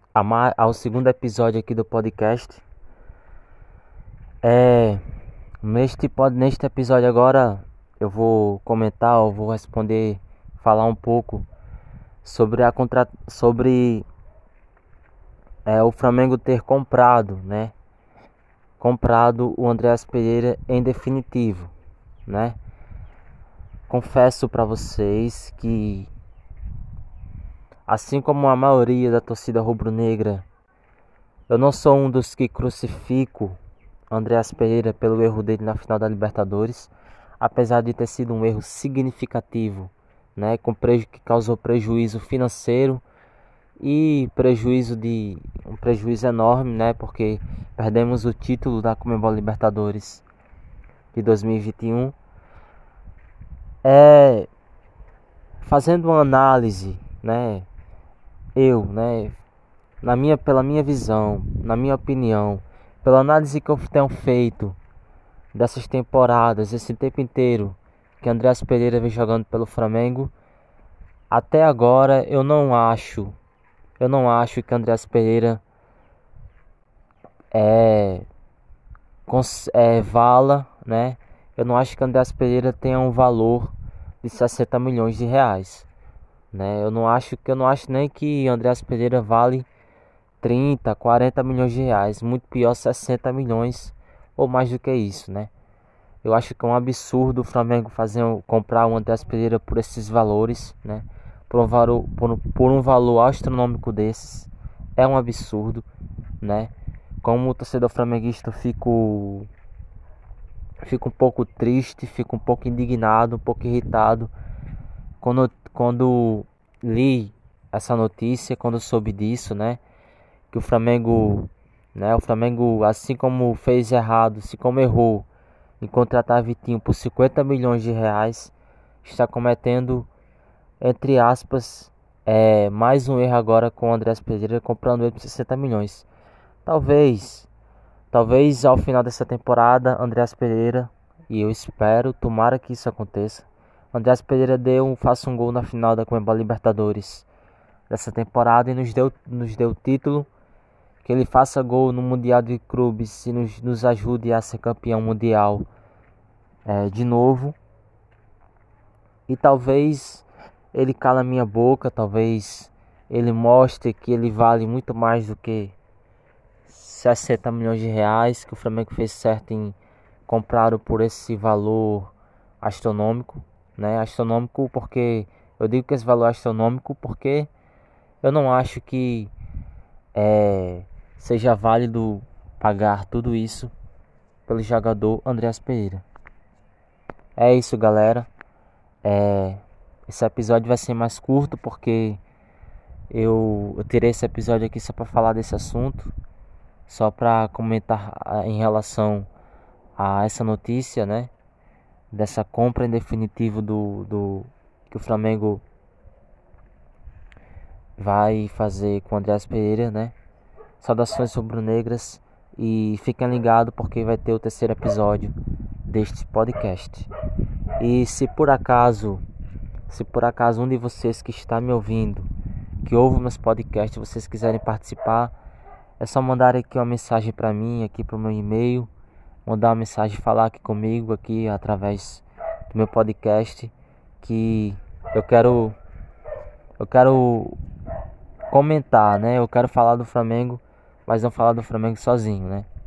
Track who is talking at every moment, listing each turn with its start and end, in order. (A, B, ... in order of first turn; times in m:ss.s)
0:00.2-0:02.6 A
0:04.4-0:05.0 A
0:05.6-0:11.5 A
0:12.2-0:14.1 A
0:15.6-0:17.8 A
0:18.8-0:21.7 A
0:22.3-0:22.6 A
0:23.9-0:26.1 A
0:27.9-0:30.5 A
0:31.5-0:33.6 A
0:34.1-0:43.0 A
0:43.8-0:50.2 A
0:51.1-0:52.2 A
0:53.8-0:54.5 A
0:55.6-0:57.7 A
0:58.6-0:59.4 A
1:00.0-1:04.8 A
1:05.5-1:10.3 A
1:11.3-1:13.4 A
1:14.0-1:15.6 A
1:17.5-1:18.3 A
1:19.3-1:25.9 A
1:26.5-1:29.7 A
1:30.4-1:35.5 A
1:36.2-1:45.9 A
1:46.4-1:49.5 A
1:50.8-1:54.3 A
1:55.2-1:59.8 A
2:00.5-2:05.3 A
2:05.8-2:10.1 A
2:10.8-2:16.1 A
2:16.6-2:17.5 A
2:18.1-2:27.3 A
2:27.9-2:30.3 A
2:31.0-2:35.7 A
2:36.7-2:37.6 A
2:39.3-2:45.8 A
2:46.7-2:57.5 A
2:58.2-2:59.3 A
3:00.2-3:03.7 A
3:04.5-3:06.0 A
3:07.4-3:08.3 A
3:09.0-3:12.2 A
3:13.1-3:16.1 A
3:16.9-3:19.3 A
3:20.0-3:21.3 A
3:22.1-3:25.6 A
3:28.0-3:30.2 A
3:30.8-3:37.1 A
3:37.8-3:39.2 A
3:39.9-3:42.3 A
3:42.8-3:45.3 A
3:46.0-3:48.9 A
3:49.5-3:55.8 A
3:56.8-3:57.6 A
3:58.5-4:02.7 A